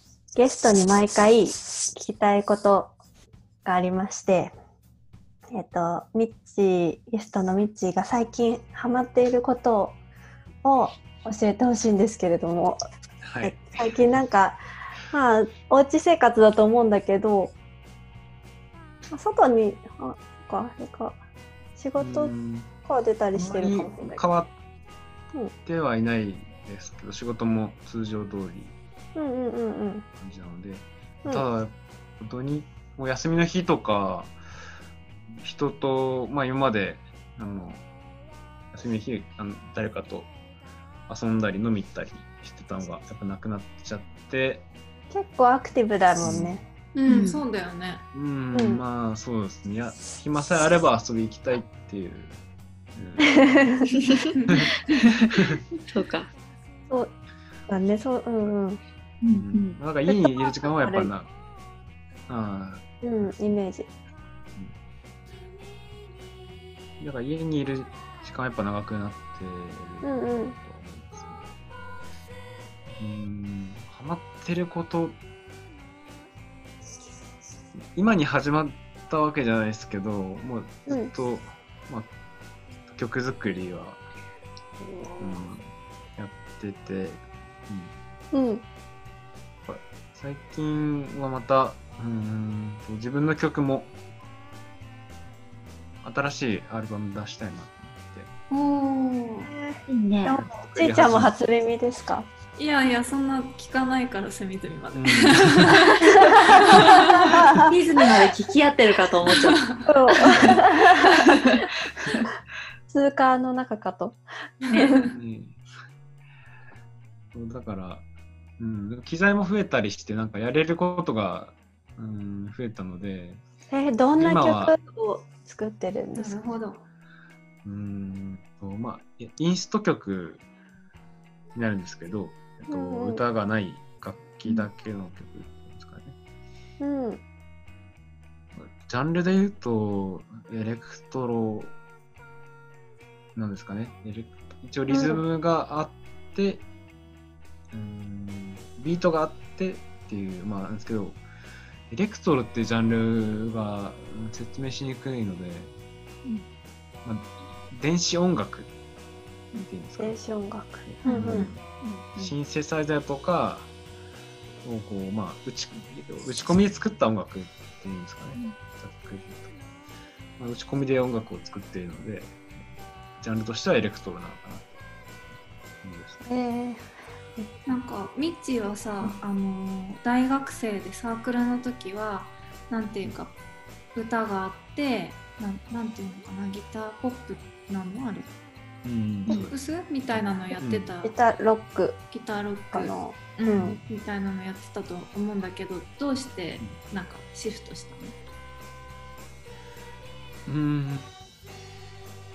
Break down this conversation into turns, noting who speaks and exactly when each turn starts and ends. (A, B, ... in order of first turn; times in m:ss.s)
0:00.3-0:02.9 A
0:03.6-0:04.5 A
0:05.5-0:10.0 A
0:10.6-0:12.8 A
0:13.2-0:13.7 B
0:13.4-0:14.6 A
0:15.1-0:17.5 A
0:19.1-0:21.2 A
0:21.8-0:22.3 A
0:22.0-0:22.7 B
0:22.8-0:24.2 A
0:23.3-0:24.5 B
0:25.6-0:28.7 B
0:29.2-0:30.0 A
0:30.2-0:34.3 B
0:35.4-0:37.8 B
0:38.7-0:40.3 B
0:41.1-0:44.6 B
0:45.1-0:46.6 A
0:46.2-0:46.6 B
0:46.9-0:48.0 C
0:47.1-0:47.4 D
0:48.1-0:52.4 B
0:48.5-0:48.8 A
0:52.9-0:53.4 B
0:53.3-0:54.0 A
0:54.0-0:54.3 D
0:54.4-0:54.7 C
0:55.3-0:55.6 B
0:55.9-0:56.3 D
0:57.7-0:58.8 A
0:59.2-0:59.8 D
0:59.3-1:01.3 B
1:00.0-1:01.1 A
1:02.3-1:02.8 B
1:03.0-1:03.9 A
1:07.0-1:11.4 B
1:10.0-1:10.5 A
1:13.0-1:15.2 B
1:17.9-1:22.1 B
1:20.9-1:21.1 A
1:22.9-1:24.0 B
1:25.2-1:27.9 B
1:28.3-1:28.6 A
1:29.6-1:33.9 B
1:36.0-1:38.3 B
1:38.5-1:39.5 C
1:39.4-1:42.3 A
1:39.9-1:40.4 D
1:40.4-1:41.3 B
1:42.6-1:47.4 C
1:44.9-1:45.8 B
1:46.0-1:47.7 A
1:47.7-1:49.6 D
1:49.3-1:49.8 C
1:49.8-1:51.5 A
1:50.4-1:50.6 B
1:52.9-1:54.2 A
1:54.7-1:55.1 C
1:54.7-1:55.1 A
1:55.1-1:55.6 B
1:57.3-1:58.0 B
1:58.6-2:03.4 B
2:03.7-2:06.4 A
2:04.2-2:04.7 B
2:06.1-2:06.8 C
2:07.6-2:10.4 B
2:11.5-2:16.1 B
2:12.7-2:13.2 A
2:16.8-2:17.2 A
2:18.6-2:21.7 B
2:23.3-2:26.6 B
2:24.9-2:25.2 A
2:27.7-2:31.2 B
2:31.9-2:35.7 B
2:37.0-2:38.7 B
2:39.6-2:40.2 B
2:40.0-2:41.5 A
2:40.8-2:41.6 B
2:41.0-2:42.3 D
2:42.2-2:43.7 B
2:44.6-2:49.5 B
2:50.4-2:52.4 B
2:53.2-2:54.7 B
2:55.8-2:56.2 B
2:56.3-2:56.8 A
2:57.4-2:57.8 A
2:57.7-3:03.3 C
3:03.9-3:08.3 C
3:08.8-3:09.6 B
3:09.3-3:11.2 C
3:10.1-3:10.9 B
3:11.0-3:12.0 A
3:12.1-3:18.2 C
3:12.7-3:13.8 A
3:20.4-3:21.1 B